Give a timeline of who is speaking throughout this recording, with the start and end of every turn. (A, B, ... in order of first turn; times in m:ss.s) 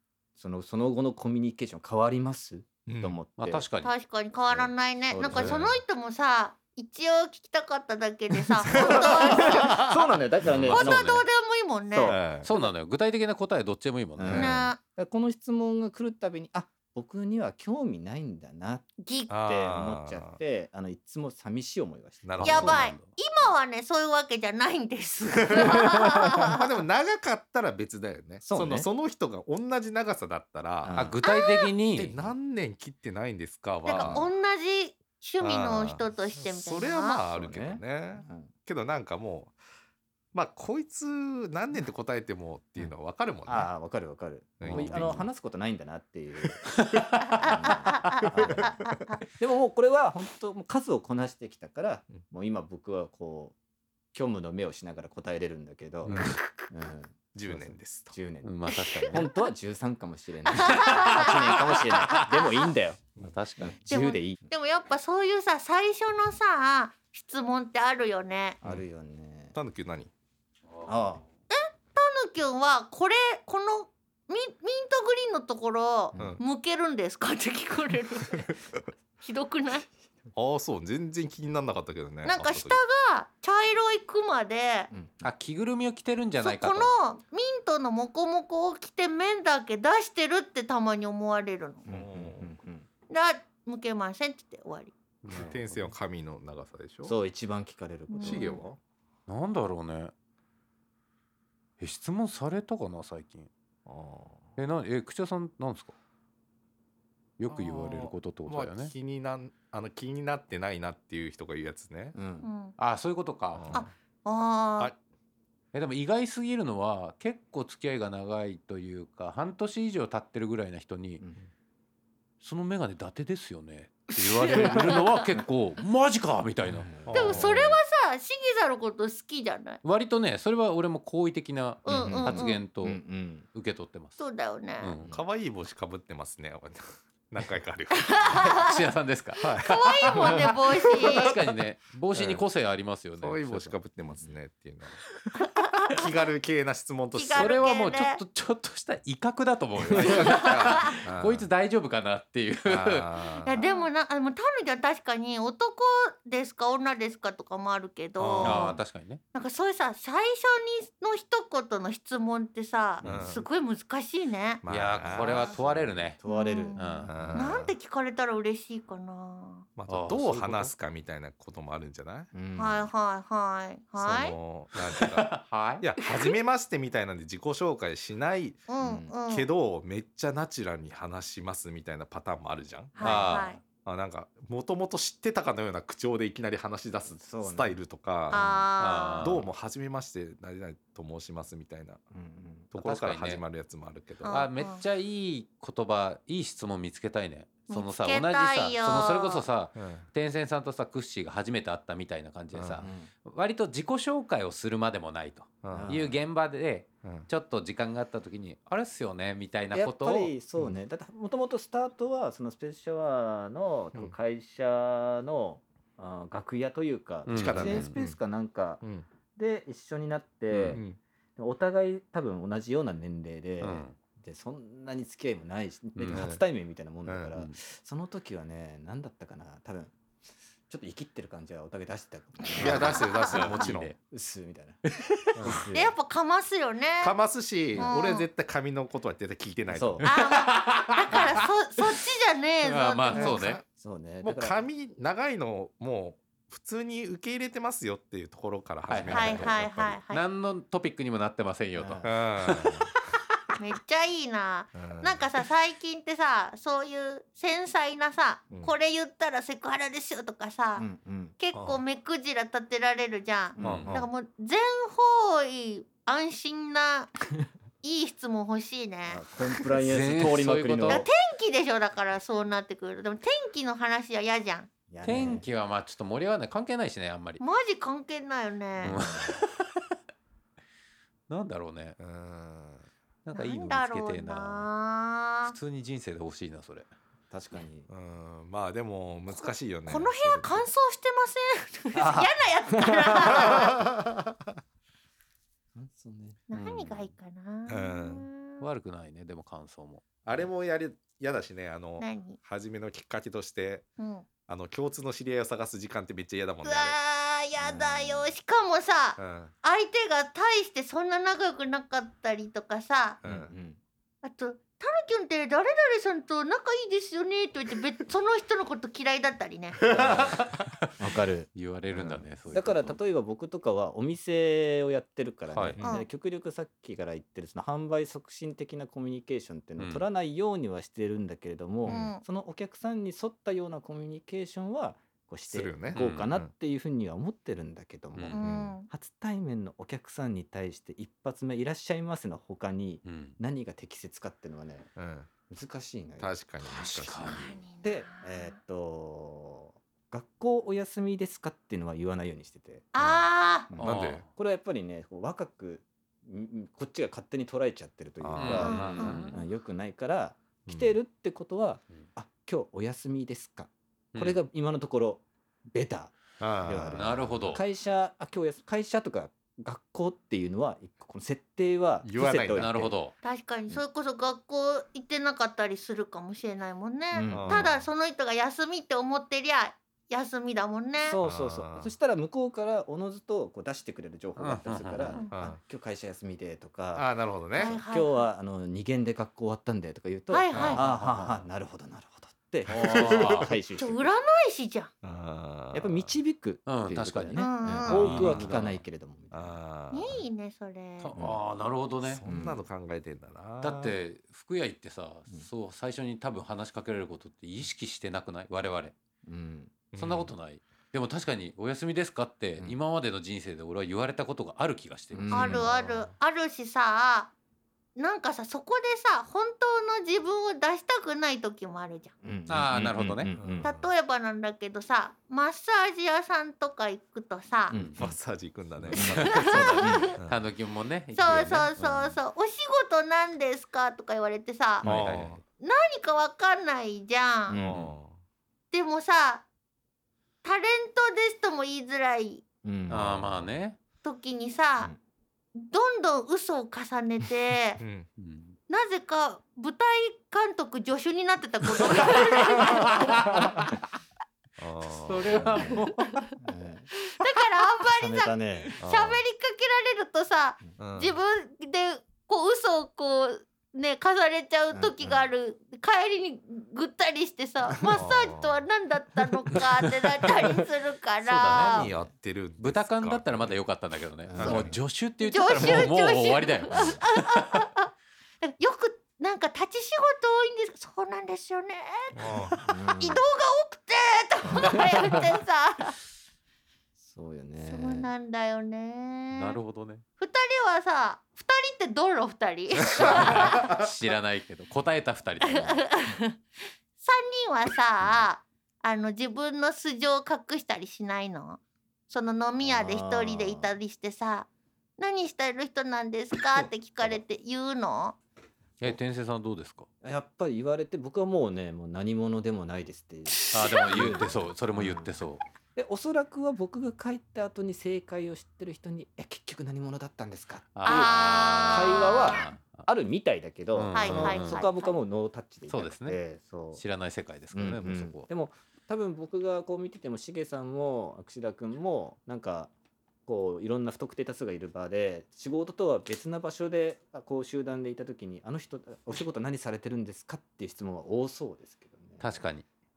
0:00.4-0:03.7 A
0:02.9-0:03.2 B
0:03.4-0:03.9 C
0:03.8-0:09.9 D
0:04.5-0:05.8 A
0:05.3-0:05.6 B
0:08.6-0:11.0 A
0:08.7-0:09.8 B
0:10.5-0:11.3 C
0:10.7-0:12.7 D
0:11.9-0:12.2 A
0:12.0-0:12.5 B
0:12.4-0:14.5 C
0:14.2-0:22.9 A
0:14.2-0:14.6 B
0:14.3-0:14.8 D
0:19.0-0:19.3 D
0:19.3-0:20.4 B
0:22.2-0:22.9 B
0:22.4-0:23.1 C
0:22.4-0:26.6 D
0:25.4-0:31.1 B
0:28.4-0:28.9 A
0:30.8-0:31.2 A
0:31.0-0:32.2 C
0:31.2-0:31.7 D
0:32.0-0:34.3 B
0:33.7-0:34.2 C
0:33.9-0:37.2 D
0:35.4-0:39.6 B
0:37.3-0:38.5 A
0:40.3-0:43.7 B
0:43.5-0:46.7 A
0:44.6-0:45.3 B
0:44.6-0:45.2 C
0:46.7-0:48.2 C
0:47.4-0:48.7 A
0:47.5-0:49.2 D
0:48.2-0:49.1 B
0:49.4-0:53.6 A
0:54.1-1:04.4 A
0:56.0-0:56.4 C
0:56.1-0:56.4 B
0:57.3-0:58.1 B
0:58.4-0:59.3 C
0:58.7-0:59.1 D
1:00.6-1:02.7 D
1:00.8-1:02.0 C
1:03.2-1:03.8 C
1:03.9-1:08.6 D
1:08.6-1:09.6 A
1:09.6-1:10.1 B
1:10.8-1:11.2 A
1:11.5-1:18.5 D
1:16.1-1:16.4 A
1:16.2-1:16.4 B
1:19.2-1:19.9 D
1:20.4-1:22.8 B
1:22.3-1:24.9 D
1:25.2-1:26.9 C
1:26.4-1:31.8 D
1:31.9-1:32.9 A
1:31.9-1:32.5 B
1:33.1-1:34.9 D
1:35.2-1:35.9 C
1:35.3-1:37.1 B
1:37.0-1:38.6 A
1:38.1-1:38.6 D
1:38.2-1:38.8 B
1:39.3-1:40.1 C
1:41.8-1:43.5 C
1:43.9-1:44.5 B
1:44.6-1:45.9 C
1:47.4-1:48.9 C
1:47.5-1:52.2 B
1:52.2-1:52.5 A
1:52.4-1:52.8 D
1:52.8-1:53.9 C
1:53.6-1:53.9 B
1:53.7-1:54.9 D
1:55.7-2:01.2 C
2:01.2-2:01.5 A
2:02.4-2:06.9 C
2:04.2-2:05.2 D
2:06.7-2:07.4 A
2:07.0-2:07.8 B
2:07.1-2:09.8 D
2:09.8-2:14.2 C
2:11.8-2:12.6 D
2:11.9-2:13.5 A
2:14.2-2:14.9 D
2:14.8-2:15.1 C
2:15.1-2:18.6 B
2:18.0-2:18.8 D
2:18.2-2:20.4 C
2:19.4-2:20.4 B
2:19.6-2:21.3 D
2:21.0-2:21.5 B
2:21.0-2:23.8 C
2:22.1-2:22.4 B
2:23.2-2:25.1 B
2:25.4-2:25.9 D
2:25.8-2:27.7 B
2:27.2-2:28.2 D
2:27.4-2:33.1 C
2:29.8-2:31.4 B
2:29.9-2:30.2 A
2:30.3-2:30.8 D
2:32.7-2:33.6 B
2:33.4-2:38.8 D
2:38.2-2:38.8 B
2:38.4-2:39.2 C
2:39.3-2:44.6 D
2:43.0-2:43.4 B
2:44.6-2:46.1 B
2:44.7-2:46.2 C
2:45.2-2:45.6 A
2:46.2-2:47.4 A
2:46.2-2:49.7 D
2:46.8-2:47.2 C
2:47.1-2:47.7 B
2:49.8-2:52.3 B
2:49.9-2:50.7 C
2:52.3-2:52.9 A
2:52.6-2:54.4 D
2:54.0-2:58.7 B
2:54.8-2:55.8 C
2:56.0-2:56.3 D
2:58.7-2:59.5 D
2:58.8-2:59.2 A
2:59.3-3:08.4 B
3:03.0-3:03.6 D
3:03.0-3:03.6 C
3:07.2-3:07.8 A
3:08.3-3:08.7 A
3:08.3-3:09.4 D
3:08.8-3:09.5 C
3:09.2-3:12.0 B
3:12.1-3:12.7 A
3:12.7-3:14.4 B
3:12.8-3:13.4 C
3:14.2-3:14.8 D
3:14.3-3:30.3 C
3:17.7-3:19.5 D
3:19.8-3:20.1 B
3:22.6-3:22.9 B
3:22.8-3:23.1 A
3:25.6-3:26.0 B
3:25.7-3:26.2 A
3:29.7-3:38.8 A
3:37.3-3:38.1 C
3:37.3-3:38.2 B
3:39.4-3:40.8 A
3:40.5-3:41.0 B
3:41.4-3:49.9 A
3:43.6-3:44.0 C
3:46.0-3:46.3 C
3:46.1-3:46.4 B
3:47.1-3:47.3 B
3:50.7-3:54.8 A
3:52.6-3:54.0 C
3:52.6-3:53.9 B
3:54.9-3:55.6 C
3:55.4-3:56.0 A
3:55.4-3:55.6 B
3:55.7-3:57.2 D
3:57.0-4:00.0 B
3:57.8-3:58.3 D
3:59.7-4:00.0 A
4:00.0-4:01.4 C
4:00.0-4:03.4 D
4:02.6-4:03.6 C
4:03.1-4:03.6 B
4:03.8-4:04.6 A
4:04.2-4:10.0 B
4:08.9-4:09.6 C
4:09.1-4:10.2 D
4:10.1-4:13.4 C
4:11.8-4:12.1 A
4:12.0-4:12.9 B
4:13.6-4:20.9 D
4:14.7-4:15.2 B
4:20.8-4:21.4 A
4:21.4-4:27.1 D
4:21.5-4:21.8 B
4:23.6-4:23.9 A
4:23.6-4:23.9 C
4:23.6-4:24.1 B
4:27.8-4:29.3 D
4:29.1-4:31.1 A
4:29.8-4:31.1 C
4:30.9-4:34.7 D
4:34.9-4:35.5 A
4:35.0-4:37.4 C
4:37.4-4:39.0 D
4:38.8-4:39.4 A
4:38.8-4:39.8 C
4:41.3-4:42.0 C
4:42.0-4:42.9 B
4:43.2-4:44.7 C
4:43.3-4:45.6 D
4:45.5-4:46.9 C
4:47.3-4:47.9 A
4:47.9-4:50.6 B
4:49.3-4:53.8 D
4:51.9-4:53.7 A
4:53.4-4:53.9 B
4:55.8-4:57.1 A
4:56.5-4:58.6 D
4:57.7-4:58.3 B
4:58.6-5:00.0 C
5:00.2-5:03.9 B
5:02.0-5:02.4 D
5:04.0-5:04.3 D
5:04.5-5:07.0 B
5:06.6-5:13.2 D
5:07.6-5:08.3 A
5:09.2-5:09.5 B
5:13.2-5:13.5 B
5:13.2-5:13.8 A
5:14.2-5:19.8 D
5:19.9-5:20.5 B
5:20.0-5:20.9 C
5:20.0-5:20.3 A
5:21.0-5:44.9 A
5:21.6-5:23.0 C
5:25.5-5:25.8 C
5:25.8-5:26.1 D
5:29.8-5:30.0 C
5:31.9-5:32.2 D
5:35.5-5:36.5 B
5:35.9-5:36.3 C
5:38.3-5:38.9 D
5:38.4-5:38.7 B
5:43.0-5:43.4 C
5:45.0-5:45.3 B
5:45.5-5:52.9 A
5:46.2-5:47.5 B
5:46.6-5:47.6 C
5:47.3-5:48.5 D
5:52.9-5:53.7 D
5:53.7-6:13.0 A
5:53.8-5:54.3 C
5:53.8-5:54.2 B
5:58.2-5:59.2 B
5:58.4-5:59.4 C
5:58.6-5:59.3 D
6:00.7-6:00.9 B
6:06.4-6:07.3 B
6:06.9-6:07.6 C
6:12.0-6:12.7 B
6:12.6-6:13.1 C
6:13.2-6:21.2 D
6:17.1-6:17.7 A
6:17.3-6:17.8 B
6:21.0-6:34.1 A
6:21.2-6:21.9 B
6:24.4-6:25.2 C
6:25.1-6:25.4 D
6:25.3-6:25.6 B
6:27.0-6:27.8 B
6:27.6-6:28.2 D
6:30.3-6:30.8 D
6:30.5-6:31.4 C
6:32.7-6:33.5 B
6:32.7-6:33.5 C
6:33.8-6:34.9 D
6:35.0-6:36.1 B
6:35.7-6:39.6 A
6:36.7-6:38.8 C
6:37.4-6:38.1 D
6:37.9-6:38.7 B
6:39.3-6:40.2 B
6:39.9-6:41.1 D
6:41.0-6:42.2 C
6:42.0-6:43.8 B
6:42.2-6:42.6 A
6:43.6-6:49.0 C
6:49.3-6:49.7 A
6:49.9-6:50.3 B
6:50.0-6:55.6 C
6:55.1-6:55.8 A
6:55.3-6:57.3 D
6:55.5-6:56.1 B
6:58.0-7:02.1 D
7:02.2-7:03.7 A
7:02.5-7:03.3 C
7:03.3-7:03.9 B
7:03.6-7:07.8 D
7:07.7-7:08.1 A
7:07.7-7:08.0 C
7:08.0-7:10.4 B
7:08.9-7:10.1 A
7:08.9-7:12.1 C
7:09.2-7:10.2 D
7:11.1-7:14.9 D
7:14.8-7:15.4 C
7:14.8-7:15.2 A
7:14.8-7:15.4 B
7:15.6-7:17.6 D
7:17.5-7:17.9 A
7:17.6-7:18.2 B
7:18.7-7:19.4 D
7:20.4-7:22.4 D
7:22.6-7:23.1 A
7:22.9-7:23.8 C
7:22.9-7:23.4 B
7:24.0-7:24.9 D
7:25.6-7:27.8 D
7:27.8-7:28.1 B
7:28.2-7:28.6 C
7:28.7-7:33.2 D
7:32.0-7:33.7 C
7:34.6-7:35.8 B
7:35.0-7:36.2 C
7:35.4-7:35.8 A
7:36.4-7:36.9 A
7:37.1-7:51.9 D
7:38.0-7:38.8 A
7:38.8-7:39.2 B
7:40.8-7:41.2 B
7:44.7-7:45.3 A
7:47.7-7:48.0 A
7:47.9-7:48.6 B
7:51.2-7:51.9 C
7:51.6-7:53.6 B
7:51.8-7:52.1 A
7:52.6-7:57.6 C
7:54.3-7:54.8 A
7:54.4-7:54.8 B
7:55.2-7:57.9 D
7:56.7-7:57.0 A
7:58.4-8:02.3 D
8:02.2-8:02.6 B
8:02.7-8:03.2 A
8:03.0-8:06.0 D
8:04.5-8:05.2 A
8:07.0-8:08.1 A
8:07.6-8:09.6 D
8:09.4-8:10.0 C
8:10.2-8:13.7 D
8:13.0-8:13.8 B
8:13.0-8:15.8 C
8:15.5-8:16.4 D
8:17.0-8:28.2 D
8:22.6-8:23.8 A
8:28.8-8:29.9 C
8:30.0-8:35.2 A
8:33.5-8:34.2 D
8:33.5-8:35.4 C
8:35.8-8:46.8 A
8:40.8-8:42.9 C
8:40.8-8:42.4 D
8:43.7-8:44.7 C
8:43.9-8:44.9 D
8:45.7-8:46.2 C
8:46.8-8:48.3 C
8:47.5-8:52.7 A
8:53.3-9:02.4 A
9:02.2-9:02.6 C